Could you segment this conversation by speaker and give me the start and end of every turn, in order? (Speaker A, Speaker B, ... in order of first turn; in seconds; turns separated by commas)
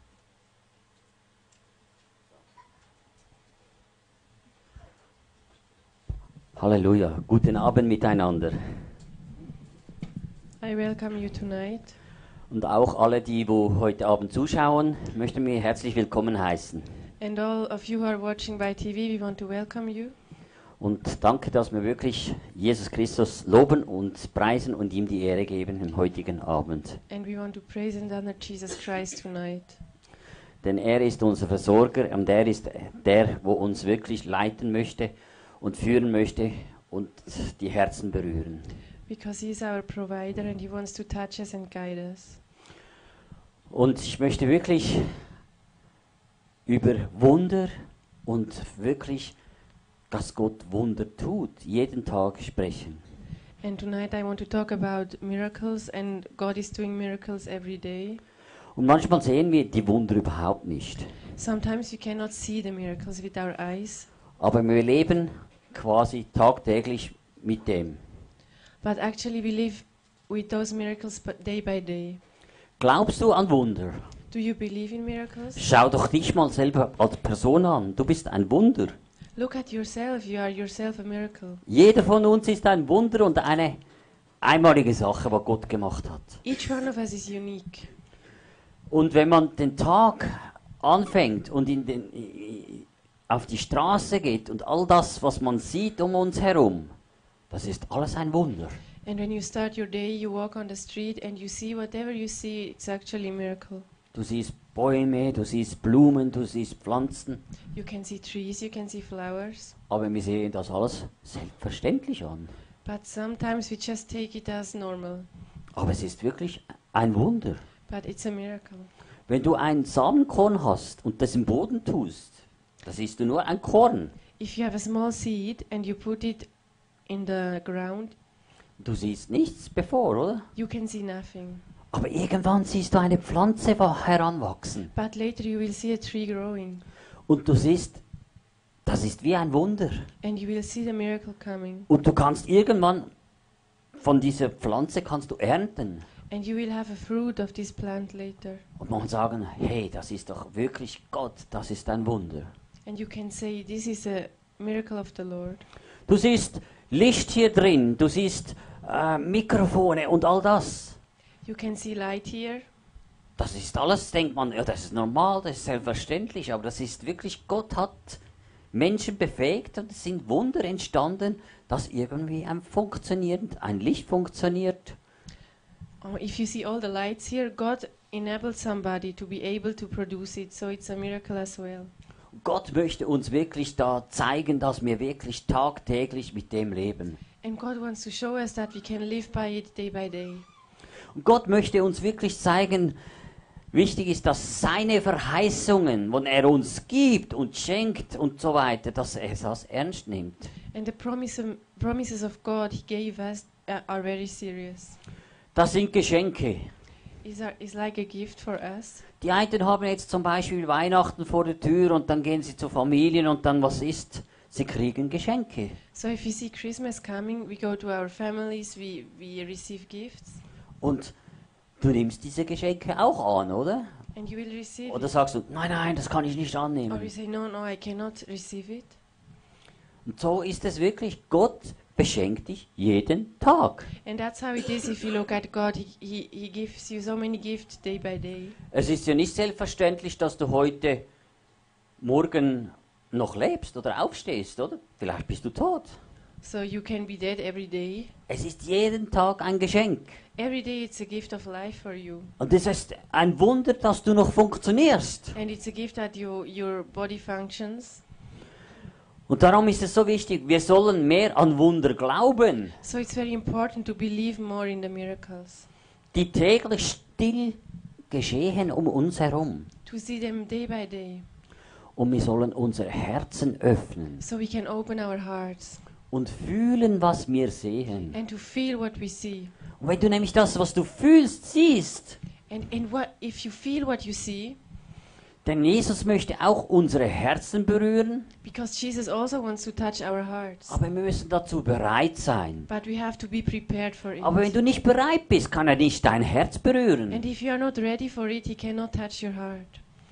Speaker A: 6.5-8.8, Speaker B: 10.6-11.9, Speaker A: 12.5-16.9, Speaker B: 17.2-20.1, Speaker A: 20.8-27.0, Speaker B: 27.1-29.8, Speaker A: 30.6-38.7, Speaker B: 39.1-42.4, Speaker A: 43.7-45.1, Speaker A: 46.6-47.7, Speaker A: 48.2-49.3, Speaker A: 50.1-53.0, Speaker B: 53.6-58.2, Speaker A: 58.8-61.1, Speaker B: 61.4-64.1, Speaker A: 64.4-68.0, Speaker B: 68.8-72.2, Speaker A: 72.8-74.1, Speaker B: 74.3-75.6, Speaker A: 75.5-79.0, Speaker B: 79.3-81.6, Speaker A: 81.7-83.8, Speaker A: 84.4-86.4, Speaker B: 86.4-87.9, Speaker A: 88.9-96.9, Speaker A: 97.5-98.8, Speaker B: 99.0-103.8, Speaker A: 104.1-107.4, Speaker B: 107.7-109.7, Speaker A: 109.9-112.5, Speaker B: 112.8-115.3, Speaker A: 115.7-117.6, Speaker B: 117.9-118.9, Speaker A: 119.3-124.1, Speaker B: 124.4-126.5, Speaker B: 127.1-128.1, Speaker A: 128.8-130.5, Speaker B: 130.6-131.6, Speaker A: 131.9-134.9, Speaker B: 134.9-136.8, Speaker A: 137.3-138.0, Speaker A: 138.8-140.1, Speaker B: 140.2-141.9, Speaker A: 141.9-143.1, Speaker A: 144.0-146.1, Speaker B: 146.3-148.6, Speaker A: 148.8-152.5, Speaker B: 152.8-155.7, Speaker A: 156.1-161.0, Speaker B: 161.4-162.7, Speaker A: 163.4-168.2, Speaker A: 168.7-175.0, Speaker B: 176.0-181.9, Speaker A: 182.3-187.2, Speaker B: 187.4-190.4, Speaker A: 191.1-192.9, Speaker A: 193.7-200.5, Speaker B: 200.7-205.0, Speaker A: 205.5-206.7, Speaker B: 207.2-209.0, Speaker A: 209.2-215.8, Speaker B: 215.9-220.4, Speaker A: 220.8-221.1, Speaker A: 221.8-223.9, Speaker B: 224.1-225.1, Speaker A: 224.9-227.1, Speaker B: 226.9-228.9, Speaker A: 230.1-233.9, Speaker B: 234.0-238.6, Speaker A: 238.7-241.1, Speaker A: 242.0-245.9, Speaker B: 246.4-248.1, Speaker A: 248.3-250.2, Speaker B: 250.4-252.3, Speaker A: 252.4-255.3, Speaker B: 255.3-258.0, Speaker A: 259.3-262.8, Speaker B: 262.8-265.7, Speaker A: 266.1-267.6, Speaker A: 268.1-269.7, Speaker B: 269.9-271.2, Speaker A: 271.9-274.2, Speaker B: 274.2-275.8, Speaker A: 276.1-278.1, Speaker B: 278.1-279.5, Speaker A: 279.8-282.2, Speaker B: 282.5-284.6, Speaker A: 285.4-288.3, Speaker B: 288.4-290.8, Speaker A: 290.7-292.7, Speaker B: 292.7-294.5, Speaker A: 294.2-297.2, Speaker B: 297.1-299.8